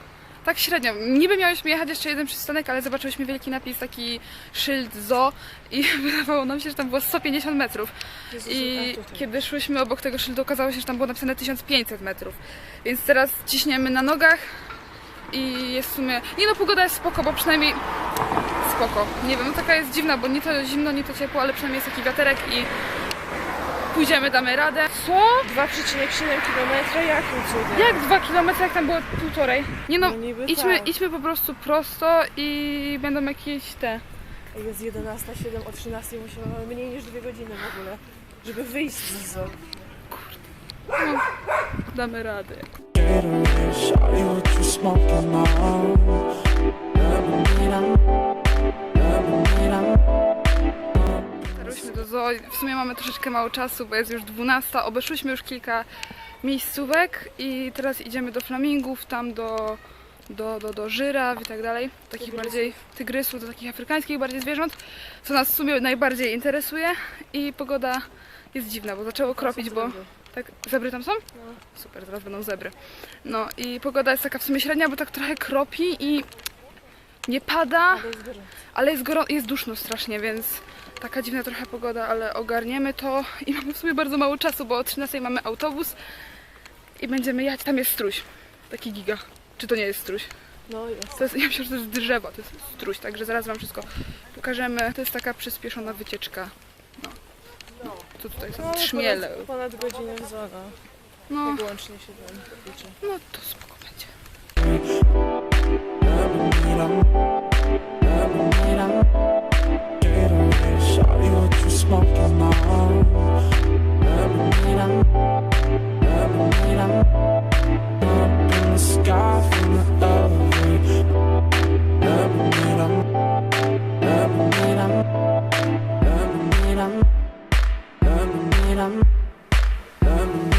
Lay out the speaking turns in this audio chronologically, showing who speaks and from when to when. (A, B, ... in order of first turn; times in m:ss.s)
0:00.4-0:14.7 A
0:08.3-0:09.3 B
0:15.3-0:17.8 A
0:18.6-0:22.7 A
0:23.9-0:25.4 A
0:25.4-0:28.0 B
0:27.7-0:34.0 A
0:30.0-0:30.9 B
0:34.5-0:39.7 B
0:40.1-0:43.0 A
0:43.2-0:45.9 C
0:44.1-0:44.5 B
0:51.5-0:55.9 A
0:56.4-1:16.3 A
1:02.2-1:02.7 B
1:09.4-1:10.1 B
1:11.4-1:11.6 B
1:17.3-1:18.1 A
1:17.9-1:18.5 B
1:18.7-1:26.0 A
1:27.0-1:30.3 A
1:30.7-1:31.2 B
1:31.1-1:37.2 A
1:38.1-1:39.5 A
1:38.6-1:40.8 B
1:41.3-1:41.7 A
1:41.4-1:43.0 B
1:43.0-1:44.2 A
1:50.1-1:53.0 C
1:58.7-2:00.8 C